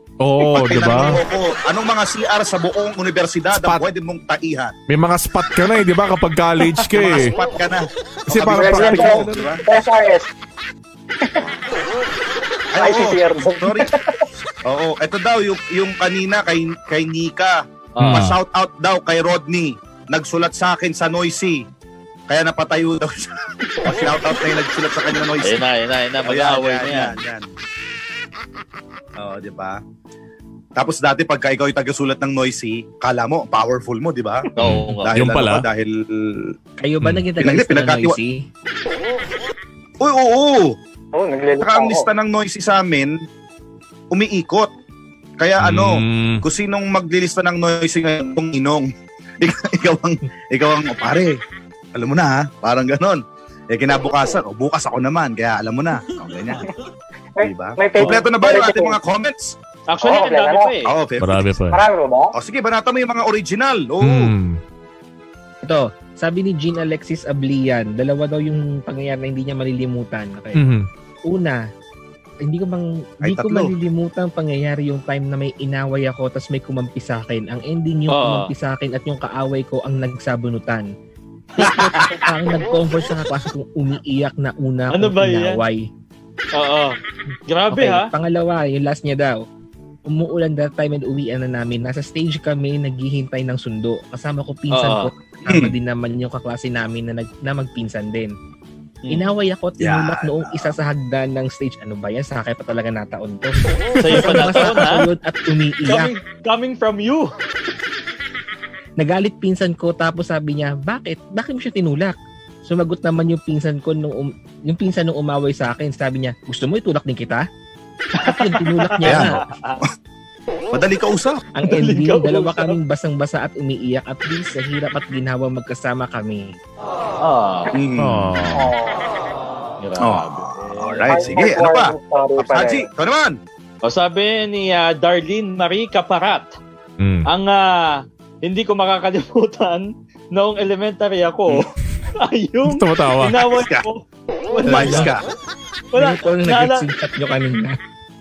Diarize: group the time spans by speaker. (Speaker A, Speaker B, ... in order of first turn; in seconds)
Speaker A: 0.2-1.2, 3.5-3.8, 4.9-7.3, 8.3-9.6, 18.0-18.4, 34.6-35.6, 45.6-46.4, 61.2-61.8, 64.0-64.6, 70.5-70.9, 103.9-104.4, 128.0-128.7, 137.0-137.3, 142.6-143.4
Speaker B: 0.4-4.7, 6.9-9.6, 12.7-13.9, 14.7-21.6, 22.3-25.6, 26.2-27.4, 29.2-29.8, 30.8-34.5, 35.0-36.5, 37.4-38.2, 40.0-40.8, 41.6-43.2, 44.1-44.7, 45.4-48.9, 49.4-51.4, 51.9-56.7, 57.4-59.5, 60.8-61.6, 62.3-64.3, 73.2-73.7, 81.6-82.1, 95.5-95.7, 99.8-100.7, 119.0-119.9, 120.7-121.4, 127.7-128.5, 130.0-133.4, 143.5-143.8, 144.7-145.2
Speaker C: 8.4-10.3, 12.8-14.2, 41.1-42.1, 57.4-59.0, 60.0-60.7, 61.7-62.3, 128.5-129.0, 131.1-132.8
Speaker D: 17.9-18.3, 25.4-27.1, 34.6-35.1, 59.9-60.9, 78.1-78.5, 84.9-85.6, 86.5-87.0, 87.5-88.1, 94.7-95.1, 104.0-105.1, 105.9-107.3, 118.2-119.8, 121.6-122.8, 127.2-127.7, 129.8-131.3, 133.8-136.5, 137.3-145.1, 145.9-146.8
Speaker E: 36.8-38.5, 65.6-70.7, 71.3-71.6, 72.4-80.9, 81.6-85.9, 87.7-89.4, 90.0-98.3, 99.1-106.1, 109.0-117.5, 118.2-119.4, 121.5-126.6, 144.7-145.1, 145.9-147.8